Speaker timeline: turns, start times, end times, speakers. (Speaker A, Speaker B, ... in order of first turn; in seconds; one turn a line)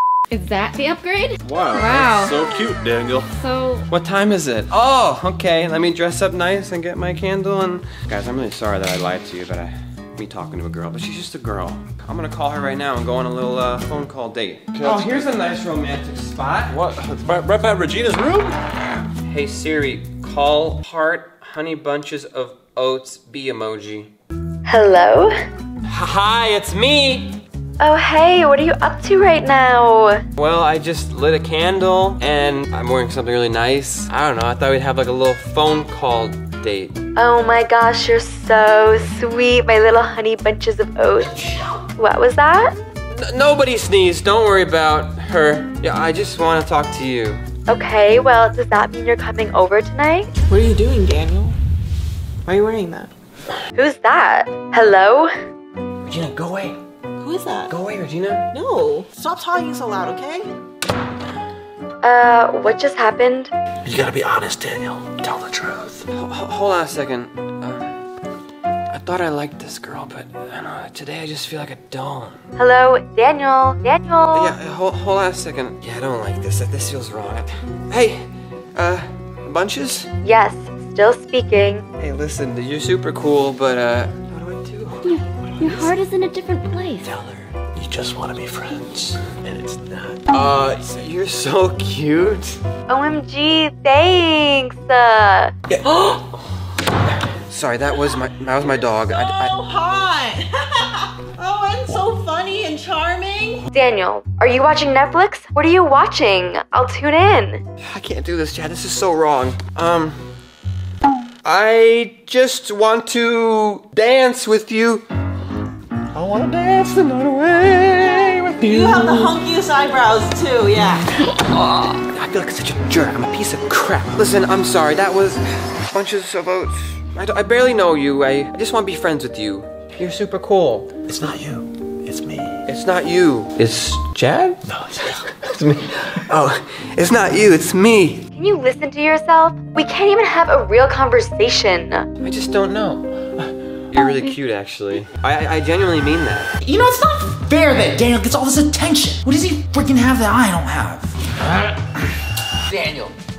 Speaker A: 0.3-2.4
Speaker B: 1.4-3.3
Speaker A: 3.3-3.9
Speaker C: 3.9-16.7
Speaker B: 14.7-15.3
Speaker B: 16.7-18.6
Speaker C: 19.2-24.1
Speaker D: 24.6-25.3
Speaker C: 25.9-27.4
Speaker D: 27.8-30.2
Speaker C: 30.4-37.0
Speaker D: 37.1-42.7
Speaker C: 43.1-47.4
Speaker D: 47.7-50.3
Speaker E: 50.5-51.5
Speaker E: 52.5-53.1
Speaker D: 53.7-55.3
Speaker C: 56.0-56.8
Speaker E: 57.2-57.7
Speaker C: 57.7-58.4
Speaker E: 58.5-60.5
Speaker D: 62.0-63.5
Speaker B: 63.8-66.0
Speaker C: 66.1-67.9
Speaker C: 68.9-72.4
Speaker D: 72.6-74.5
Speaker C: 74.3-78.2
Speaker C: 78.8-80.1
Speaker D: 80.2-81.8
Speaker C: 82.0-85.0
Speaker A: 85.0-87.1
Speaker B: 87.0-90.2
Speaker C: 90.3-92.6
Speaker D: 92.9-95.5
Speaker C: 97.5-99.5
Speaker E: 99.1-100.4
Speaker E: 101.3-103.6
Speaker D: 103.7-107.6
Speaker C: 107.8-110.2
Speaker C: 111.4-115.0
Speaker C: 116.1-119.3
Speaker E: 118.7-121.0
Speaker C: 121.3-130.9
Speaker B: 131.1-132.6
Speaker C: 132.7-134.6
Speaker B: 134.7-135.2
Speaker C: 135.3-138.2
Speaker D: 138.3-142.1
Speaker C: 142.2-146.5
Speaker F: 146.6-152.0
Speaker F: 152.7-153.1